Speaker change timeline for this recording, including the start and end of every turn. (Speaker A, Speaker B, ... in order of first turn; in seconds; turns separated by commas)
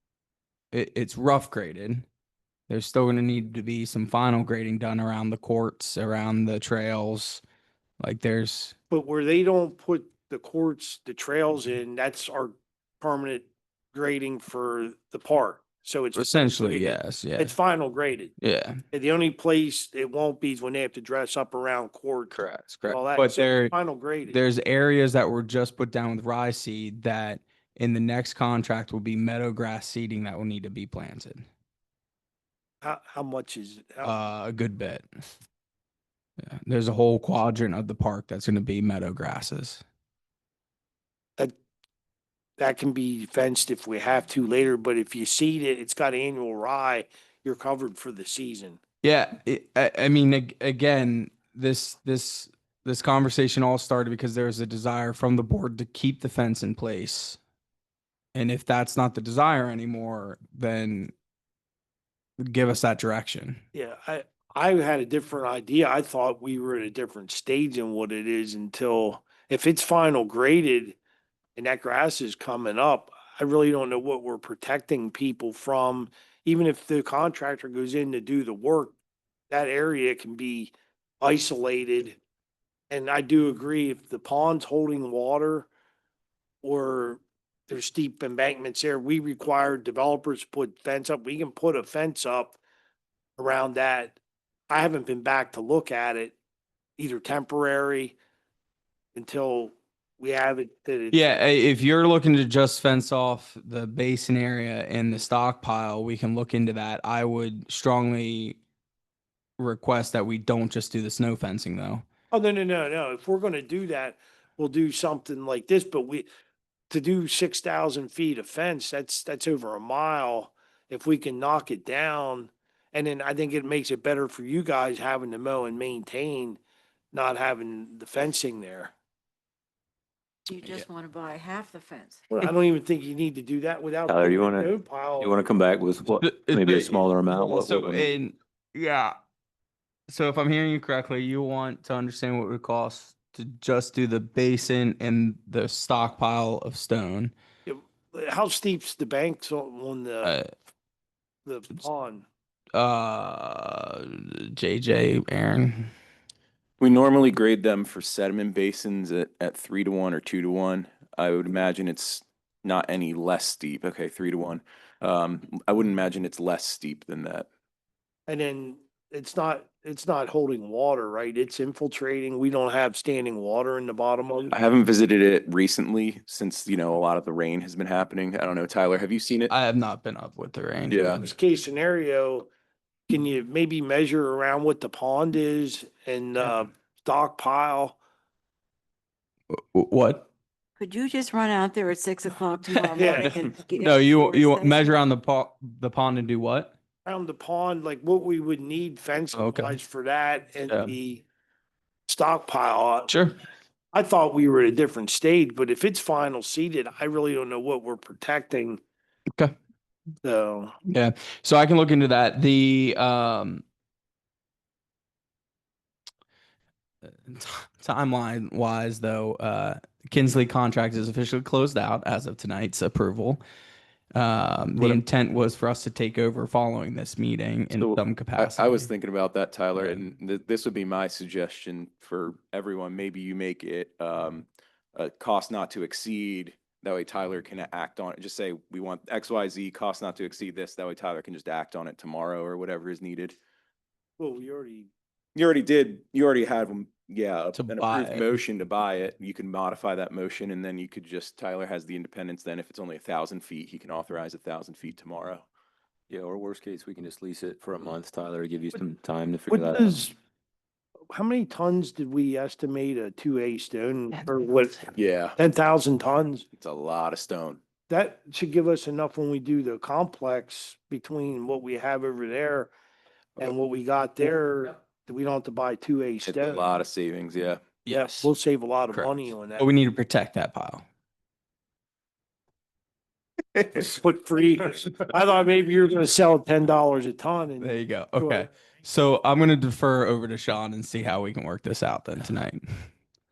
Speaker A: 0.7-2.1, Speaker A: 2.7-7.4, Speaker A: 8.0-8.8, Speaker B: 8.9-18.3, Speaker A: 16.1-17.6, Speaker A: 18.4-18.8, Speaker B: 18.9-22.4, Speaker A: 22.8-31.4, Speaker B: 22.9-24.4, Speaker B: 32.8-34.1, Speaker A: 34.0-35.3, Speaker A: 36.4-39.8, Speaker B: 42.6-48.8, Speaker A: 49.0-57.4, Speaker A: 58.3-61.1, Speaker A: 62.4-63.6, Speaker B: 63.7-71.0, Speaker B: 71.6-78.9, Speaker B: 79.5-82.2, Speaker B: 82.9-85.7, Speaker B: 86.6-92.6, Speaker B: 93.4-94.2, Speaker B: 94.7-96.4, Speaker B: 97.0-98.2, Speaker B: 99.1-101.3, Speaker A: 101.1-108.6, Speaker A: 109.6-112.0, Speaker B: 112.3-116.2, Speaker B: 116.9-126.6, Speaker B: 127.1-128.9, Speaker C: 130.5-132.2, Speaker B: 132.4-135.5, Speaker D: 134.1-138.1, Speaker A: 136.2-139.2, Speaker A: 140.1-147.3, Speaker B: 147.7-150.3, Speaker B: 151.5-152.2, Speaker A: 152.7-155.9, Speaker E: 156.8-167.5, Speaker B: 168.3-174.5, Speaker E: 174.5-179.5, Speaker A: 179.5-181.2, Speaker E: 180.9-181.2, Speaker B: 181.1-182.5, Speaker B: 183.1-188.0, Speaker A: 189.5-190.2, Speaker C: 190.8-195.0, Speaker A: 192.8-196.7, Speaker B: 192.9-193.4, Speaker B: 197.0-201.2, Speaker A: 199.3-199.8, Speaker A: 200.7-200.9, Speaker B: 202.1-203.1, Speaker A: 203.1-203.3, Speaker B: 203.9-208.8, Speaker B: 210.2-210.8, Speaker A: 210.9-213.6, Speaker A: 217.2-223.4, Speaker A: 224.1-228.9, Speaker E: 227.7-243.3, Speaker A: 229.8-230.0, Speaker B: 244.2-244.9, Speaker E: 245.3-255.4, Speaker A: 247.5-248.2, Speaker D: 256.1-260.0, Speaker B: 259.5-260.1, Speaker B: 261.1-266.4, Speaker E: 264.9-265.4, Speaker E: 266.6-267.6, Speaker B: 267.9-272.7, Speaker B: 273.4-276.6, Speaker E: 276.2-277.6, Speaker A: 277.9-278.3, Speaker B: 277.9-279.7, Speaker A: 278.9-280.8, Speaker B: 283.7-288.5, Speaker A: 287.6-292.6